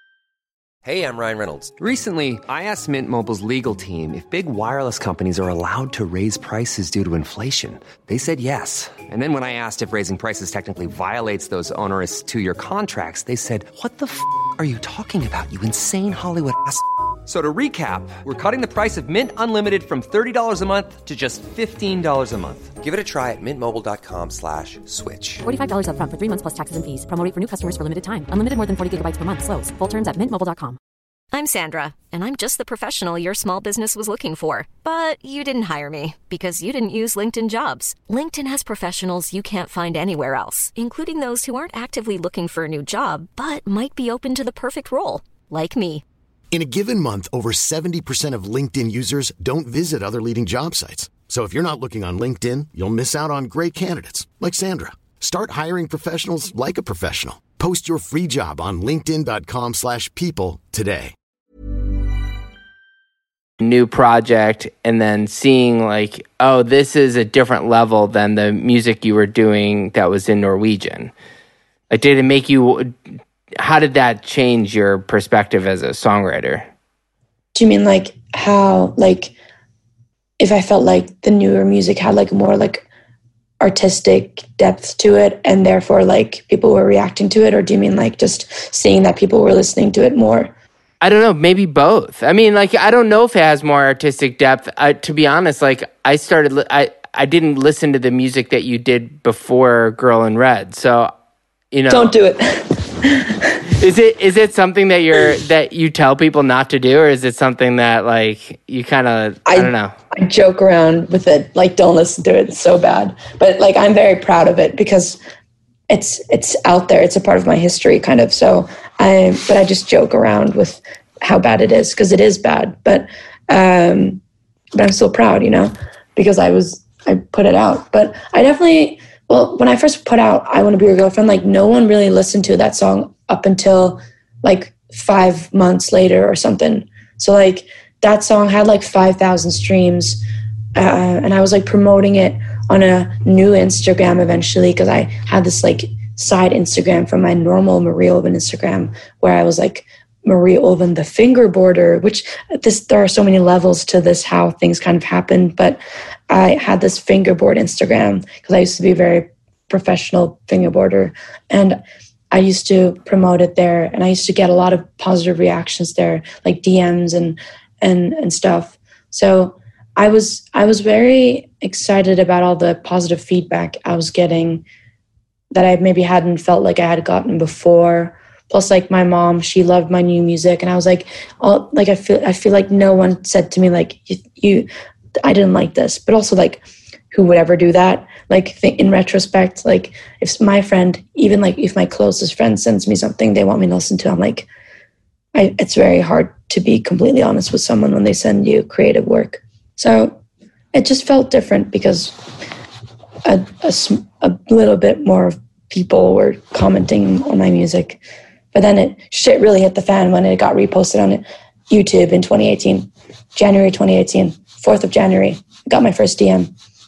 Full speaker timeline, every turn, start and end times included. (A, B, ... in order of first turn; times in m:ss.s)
0:00.8-0:25.4 A
0:25.4-0:30.8 B
0:31.3-0:46.0 C
0:46.5-1:01.1 D
1:03.6-1:11.1 E
1:11.9-1:13.0 E
1:13.6-1:16.7 E
1:17.5-1:19.3 F
1:20.4-1:22.8 F
1:23.6-1:30.5 F
1:31.0-1:41.1 E
1:41.7-1:42.1 E
1:41.9-1:43.6 F
1:43.7-1:49.9 E
1:49.5-1:55.2 F
1:55.9-2:04.2 F
2:04.7-2:20.2 F
2:20.7-2:41.8 F
2:42.3-2:54.6 F
2:55.5-3:04.7 F
3:05.2-3:14.5 F
3:15.3-3:20.2 F
3:20.7-3:22.2 F
3:23.2-3:28.0 F
3:28.5-3:36.5 F